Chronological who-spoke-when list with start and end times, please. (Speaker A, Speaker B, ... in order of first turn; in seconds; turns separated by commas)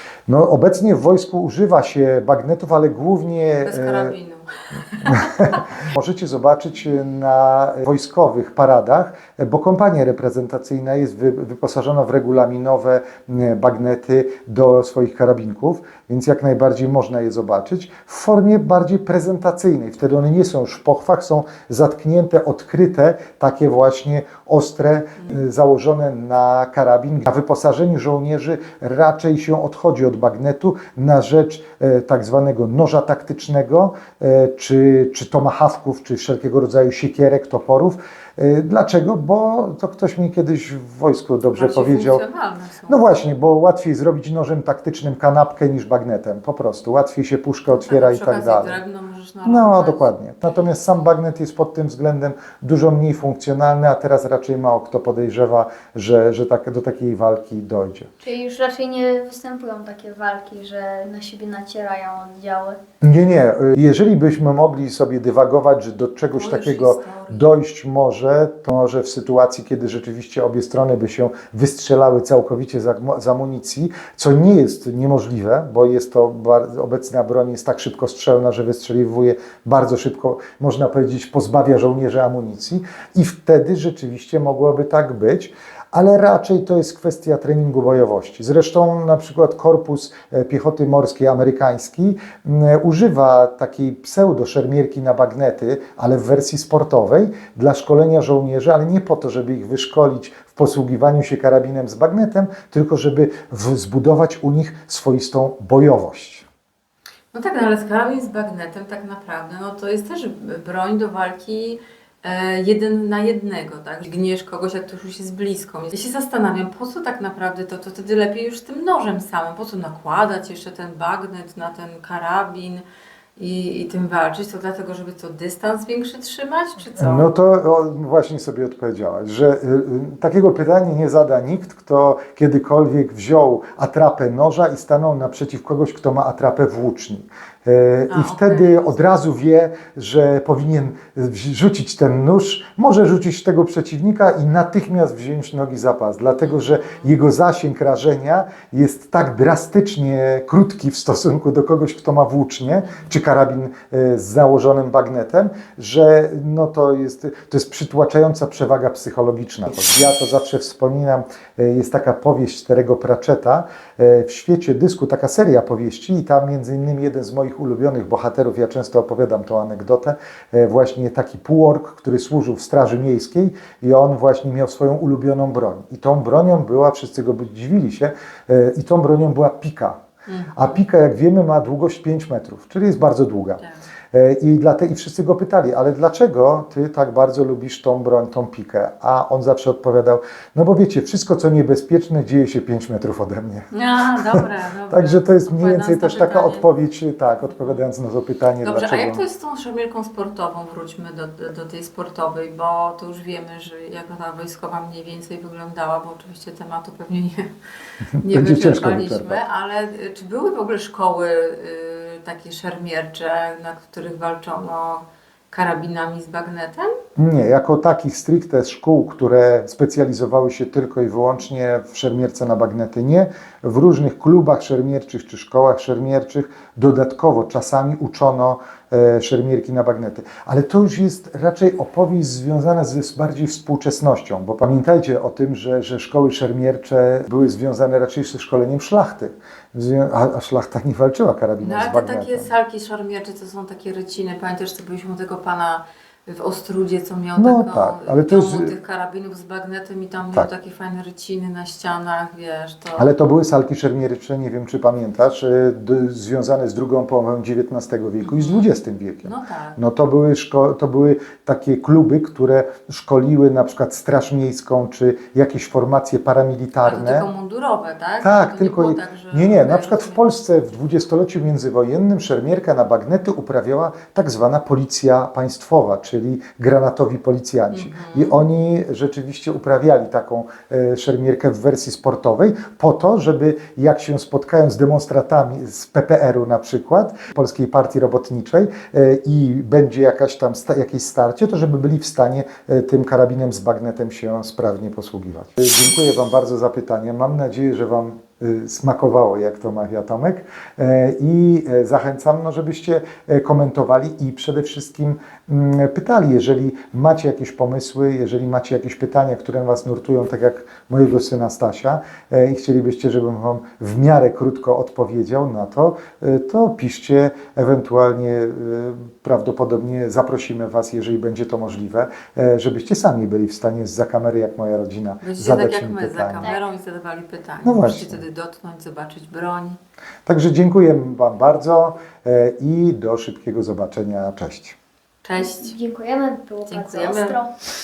Speaker A: 0.3-4.2, Speaker B: 3.6-5.6, Speaker A: 5.1-42.2, Speaker B: 41.6-43.0, Speaker A: 42.9-48.8, Speaker B: 47.7-50.1, Speaker A: 49.5-58.1, Speaker C: 58.2-62.8, Speaker A: 63.0-106.5, Speaker B: 66.3-67.5, Speaker B: 107.3-122.8, Speaker B: 123.4-127.3, Speaker A: 127.0-180.0, Speaker B: 138.1-138.9, Speaker B: 146.4-147.1, Speaker B: 152.7-153.1, Speaker B: 180.3-180.8, Speaker A: 180.6-193.7, Speaker B: 193.7-196.7, Speaker A: 194.3-199.2, Speaker B: 198.6-207.5, Speaker A: 208.2-209.4, Speaker B: 208.2-216.9, Speaker A: 217.2-242.5, Speaker B: 241.6-253.1, Speaker A: 247.4-248.7, Speaker A: 253.0-267.3, Speaker B: 258.2-258.7, Speaker B: 259.2-259.8, Speaker B: 266.8-270.3, Speaker A: 268.2-326.5, Speaker B: 277.7-278.4, Speaker B: 325.2-329.8, Speaker A: 327.6-328.2, Speaker A: 330.3-334.8, Speaker B: 335.2-335.7, Speaker C: 335.4-337.6, Speaker B: 336.7-337.4